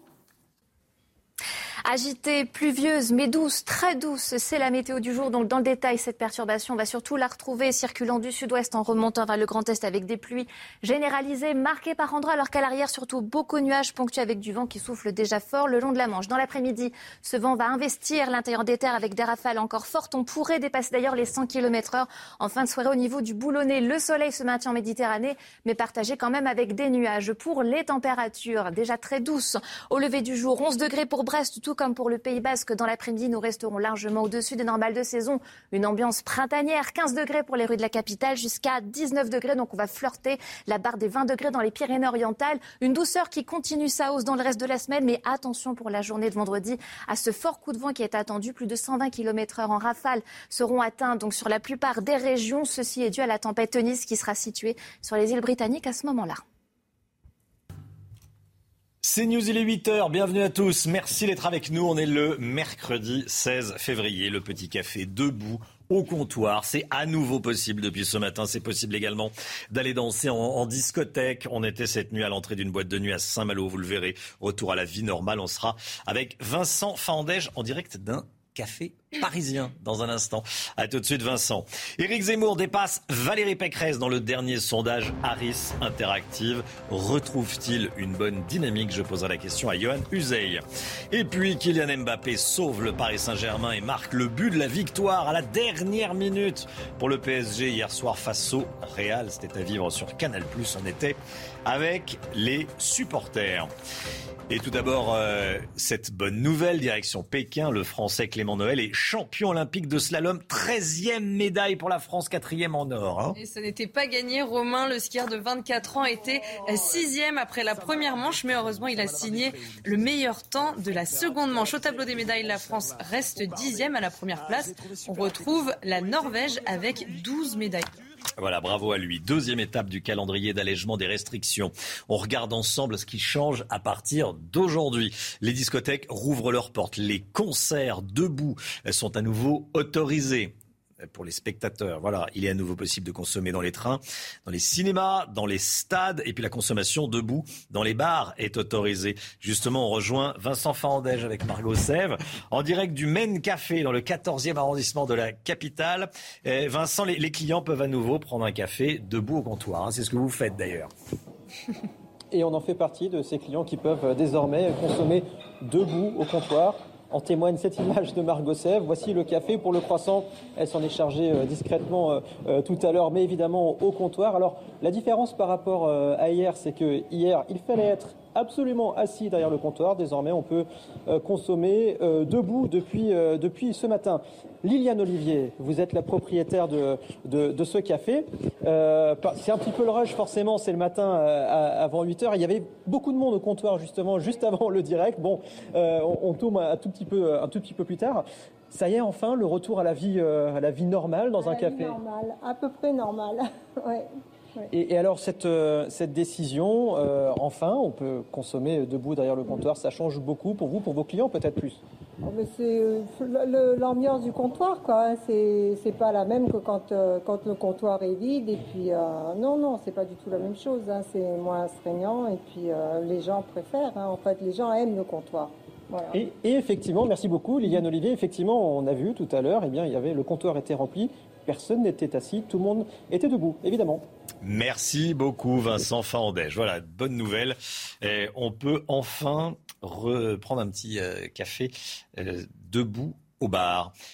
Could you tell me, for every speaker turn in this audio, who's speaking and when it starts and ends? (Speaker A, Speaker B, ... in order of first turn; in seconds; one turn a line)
Speaker A: 1.9-56.4
Speaker B: 59.0-103.7
Speaker B: 104.5-113.3
Speaker C: 113.3-127.9
Speaker B: 128.4-160.9
Speaker D: 162.3-202.0
Speaker E: 202.4-203.3
Speaker D: 204.7-211.8
Speaker E: 212.3-225.5
Speaker D: 226.1-234.1
Speaker B: 234.4-243.9